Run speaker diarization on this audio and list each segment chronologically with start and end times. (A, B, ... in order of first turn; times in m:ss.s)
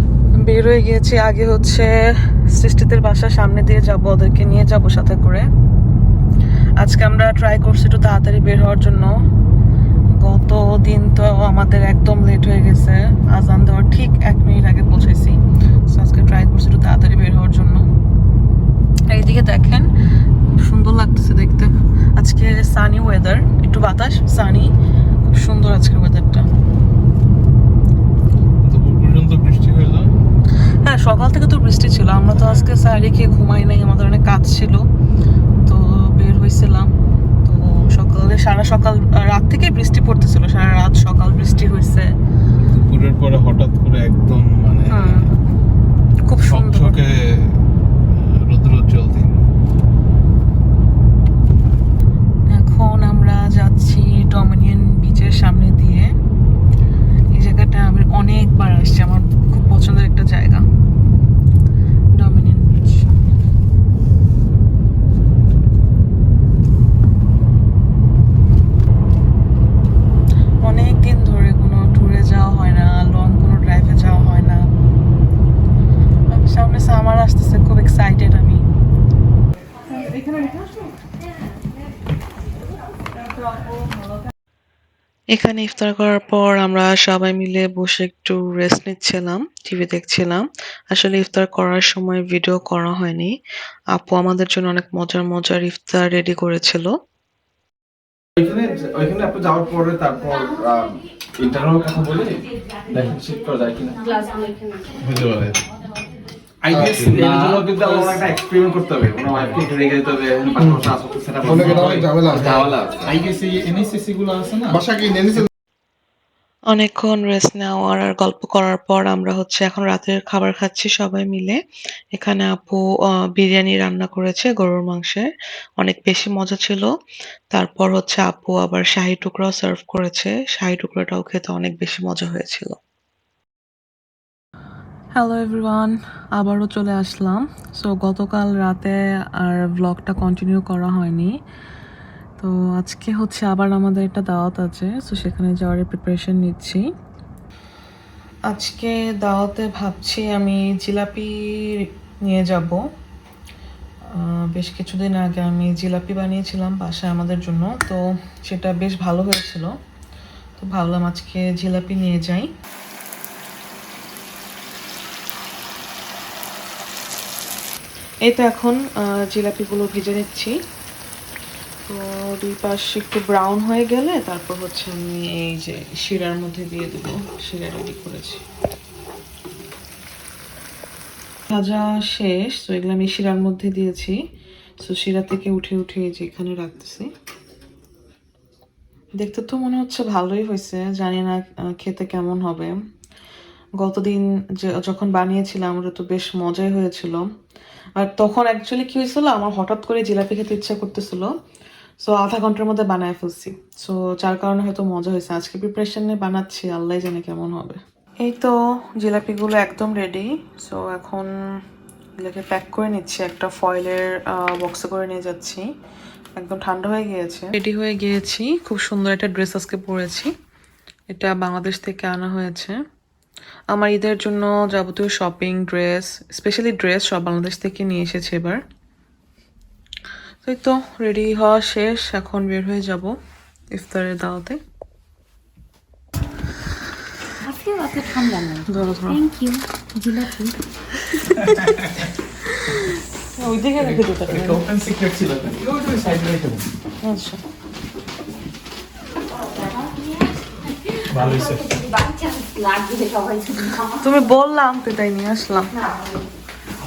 0:00.4-0:01.9 A
0:02.5-0:05.5 A
0:06.8-0:09.1 A
0:10.2-0:17.9 A
0:19.1-0:19.9 A
0:20.5-0:24.7 A
0:25.2-0:26.5 A
0:28.6-0:30.2 B
0:30.8-0:34.9 A
0:32.3-0:32.7 B
0:35.7-0:36.9 A
0:37.4-0:42.1 A
0:42.6-0:45.3 B
0:44.9-0:45.3 A
0:46.2-0:47.0 A
0:46.4-0:49.4 B
0:52.5-0:56.2 A
0:57.3-1:00.6 A
1:02.2-1:03.1 A
1:10.6-1:14.7 A
1:16.3-1:18.6 A
1:25.3-1:33.4 A
1:33.9-1:37.0 A
1:38.4-1:43.9 C
1:43.1-1:44.0 D
1:44.0-1:44.9 E
1:45.0-1:45.6 B
1:46.6-1:48.2 D
1:46.7-1:47.3 B
1:46.9-1:53.2 C
1:51.5-1:55.5 D
1:56.7-2:01.6 A
2:02.1-2:05.3 A
2:05.8-2:06.9 A
2:07.5-2:12.8 A
2:15.2-2:21.4 A
2:22.4-2:26.8 A
2:28.5-2:32.8 A
2:34.1-2:39.8 A
2:40.6-2:42.5 A
2:48.2-2:50.6 A
2:51.9-2:58.4 A
3:01.5-3:04.2 A
3:04.8-3:07.1 A
3:09.2-3:12.8 A
3:13.8-3:17.3 A
3:18.0-3:21.3 A
3:22.0-3:31.3 A
3:32.2-3:35.7 A
3:36.4-3:40.3 A
3:41.1-3:42.8 A
3:43.7-3:48.6 A
3:50.4-3:53.2 A
3:53.7-3:54.6 A
3:57.4-4:00.6 E
3:58.7-3:59.2 A
4:01.0-4:04.6 A
4:01.4-4:02.1 D
4:03.8-4:06.7 D
4:07.0-4:07.4 A
4:09.3-4:10.3 E
4:10.9-4:14.2 E
4:11.1-4:11.6 D
4:14.0-4:15.7 A
4:15.8-4:16.3 E